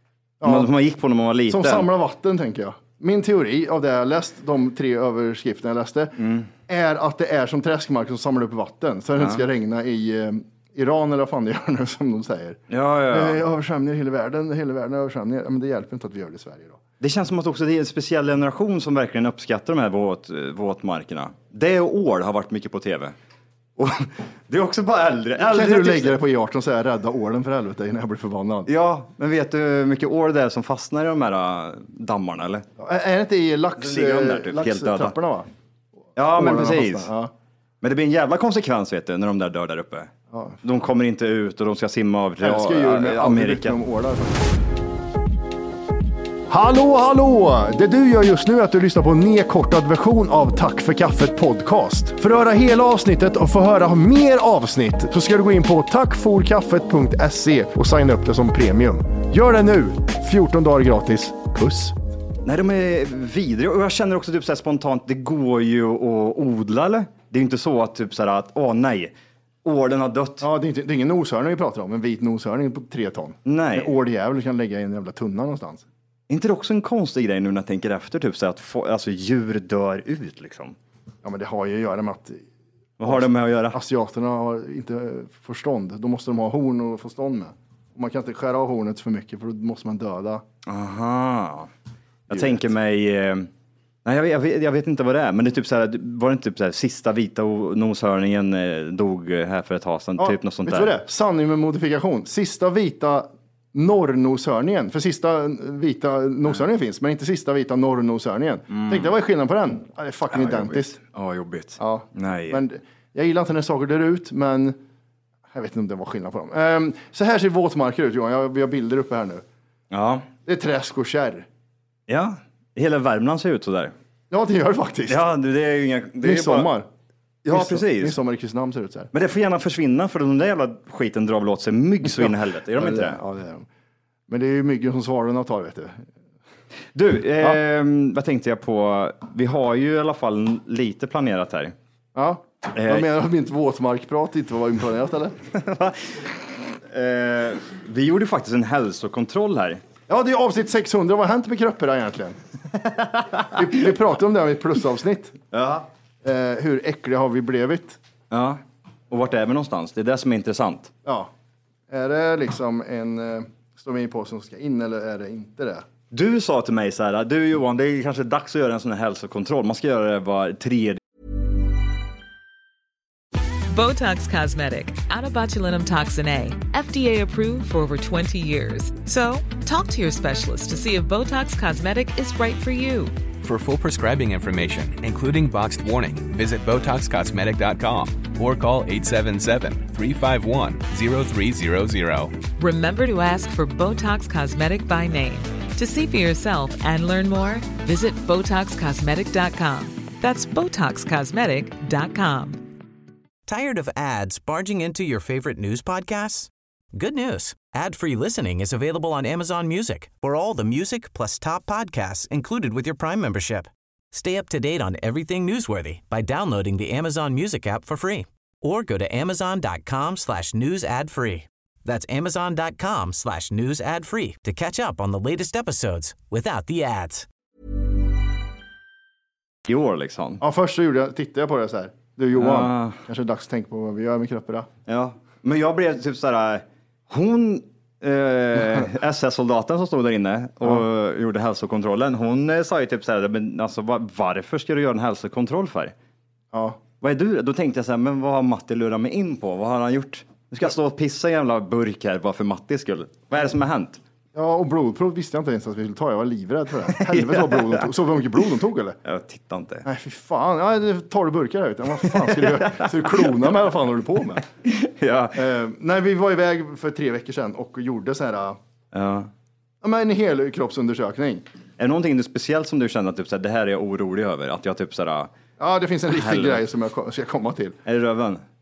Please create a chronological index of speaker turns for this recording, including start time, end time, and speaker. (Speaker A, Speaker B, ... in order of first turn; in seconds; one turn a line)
Speaker A: 0.4-0.7
Speaker B: 0.4-1.9
Speaker A: 1.5-6.1
Speaker B: 6.2-6.5
Speaker A: 6.7-12.6
Speaker B: 9.2-9.4
Speaker B: 12.7-13.4
Speaker A: 13.1-16.8
Speaker B: 17.0-23.1
Speaker B: 23.8-26.2
Speaker A: 25.4-28.7
Speaker B: 28.7-32.6
Speaker A: 32.8-35.5
Speaker B: 33.8-35.2
Speaker B: 36.1-37.1
Speaker A: 36.2-37.3
Speaker B: 37.8-40.1
Speaker A: 40.3-40.6
Speaker B: 40.6-43.8
Speaker A: 42.4-44.5
Speaker A: 46.5-62.0
Speaker B: 62.4-70.5
Speaker A: 70.4-75.8
Speaker B: 73.5-74.0
Speaker B: 76.3-80.8
Speaker A: 81.2-82.4
Speaker B: 83.0-83.8
Speaker A: 83.0-90.4
Speaker B: 90.6-91.7
Speaker B: 92.3-93.5
Speaker A: 92.3-92.6
Speaker B: 94.0-101.0
Speaker A: 100.2-111.0
Speaker B: 108.7-109.1
Speaker B: 110.3-112.6
Speaker A: 111.8-114.8
Speaker A: 115.5-119.4
Speaker B: 119.9-120.3
Speaker A: 120.4-121.5
Speaker B: 122.1-123.9
Speaker A: 124.3-125.2
Speaker B: 125.1-126.7
Speaker A: 126.2-126.9
Speaker B: 127.4-128.2
Speaker A: 127.5-129.1
Speaker B: 129.1-133.2
Speaker A: 132.1-133.7
Speaker A: 134.3-136.1
Speaker B: 136.9-141.7
Speaker A: 142.1-145.4
Speaker B: 142.7-143.1
Speaker B: 145.5-149.8
Speaker A: 150.1-152.4
Speaker A: 153.4-155.4
Speaker B: 155.5-155.9
Speaker A: 156.2-158.0
Speaker B: 158.3-160.9
Speaker A: 161.0-161.3
Speaker A: 161.9-165.8
Speaker B: 166.1-171.0
Speaker C: 173.7-183.2
Speaker D: 183.4-192.4
Speaker C: 192.6-202.6
Speaker E: 203.5-227.3
Speaker B: 229.7-230.4
Speaker A: 230.4-234.7
Speaker B: 232.3-233.0
Speaker B: 234.9-245.9
Speaker A: 246.5-246.8
Speaker B: 247.0-254.0
Speaker A: 254.3-259.0
Speaker B: 256.9-257.9
Speaker B: 259.0-259.9
Speaker A: 259.8-264.4
Speaker B: 262.0-263.5
Speaker B: 264.6-265.5
Speaker A: 265.3-268.6
Speaker B: 268.9-269.3
Speaker A: 269.8-271.4
Speaker B: 271.8-275.3
Speaker A: 275.6-277.8
Speaker B: 276.1-276.6
Speaker B: 277.9-278.4